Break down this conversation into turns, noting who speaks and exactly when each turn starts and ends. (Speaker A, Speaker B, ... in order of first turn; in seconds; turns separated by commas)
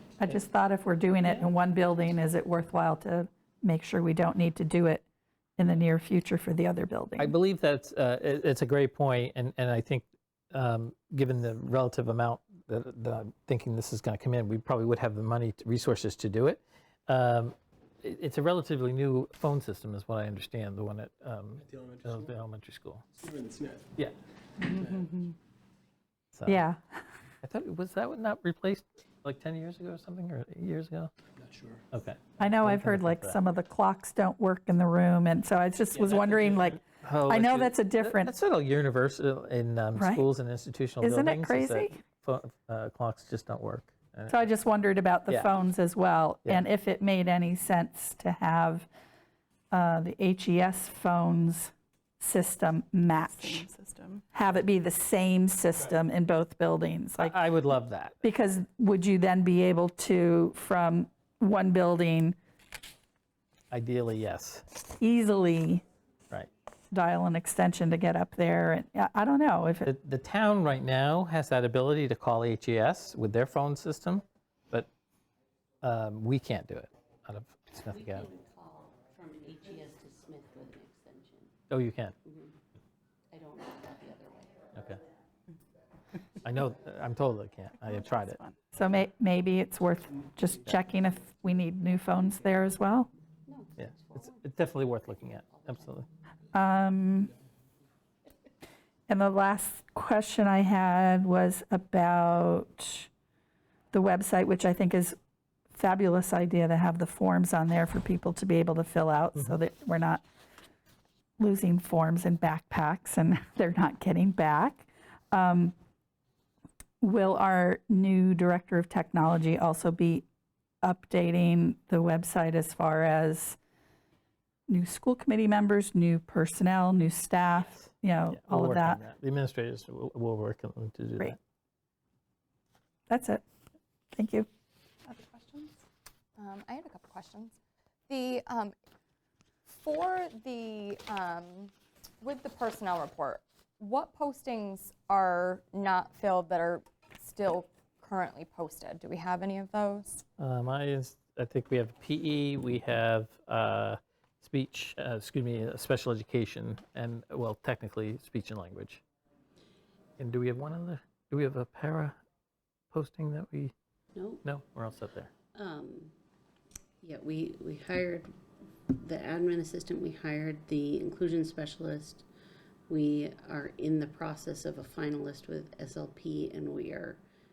Speaker A: 0.2-5.0, Speaker A: 5.6-7.3, Speaker B: 7.2-23.1, Speaker C: 21.6-22.3, Speaker C: 23.1-23.9, Speaker A: 24.6-25.3, Speaker C: 24.7-25.1, Speaker B: 26.3-26.6, Speaker A: 26.4-27.1, Speaker B: 27.4-31.1, Speaker C: 31.4-31.9, Speaker B: 31.9-33.4, Speaker A: 32.4-38.3, Speaker C: 35.9-36.7, Speaker B: 36.8-44.5, Speaker A: 39.9-40.2, Speaker A: 41.0-42.0, Speaker A: 44.3-48.9, Speaker A: 49.7-53.7, Speaker D: 53.3-54.2, Speaker A: 54.3-57.4, Speaker B: 57.2-58.2, Speaker A: 58.2-62.4, Speaker B: 63.7-64.7, Speaker A: 65.0-65.8, Speaker A: 66.9-69.9, Speaker B: 69.8-74.9, Speaker B: 75.8-78.3, Speaker E: 77.9-81.5, Speaker B: 81.7-82.2, Speaker E: 82.2-82.5, Speaker E: 83.3-84.6, Speaker B: 84.7-85.0, Speaker B: 86.4-88.4, Speaker A: 88.6-93.1, Speaker C: 90.9-91.7, Speaker E: 93.5-96.1, Speaker B: 93.8-96.1, Speaker A: 96.5-97.3, Speaker A: 99.1-103.1, Speaker A: 103.9-105.2, Speaker A: 105.7-110.2, Speaker A: 111.4-115.7, Speaker A: 117.0-120.2, Speaker A: 120.8-123.6, Speaker A: 124.7-129.0, Speaker B: 127.8-131.4, Speaker A: 133.1-133.4, Speaker A: 134.1-134.5, Speaker D: 136.4-137.6, Speaker D: 138.1-138.7, Speaker D: 139.7-150.2, Speaker B: 150.4-159.0, Speaker B: 160.2-162.2, Speaker B: 162.9-163.7, Speaker E: 164.1-164.4, Speaker B: 164.4-165.3, Speaker E: 165.5-166.1, Speaker E: 167.0-168.3, Speaker E: 168.9-172.2, Speaker E: 172.9-177.2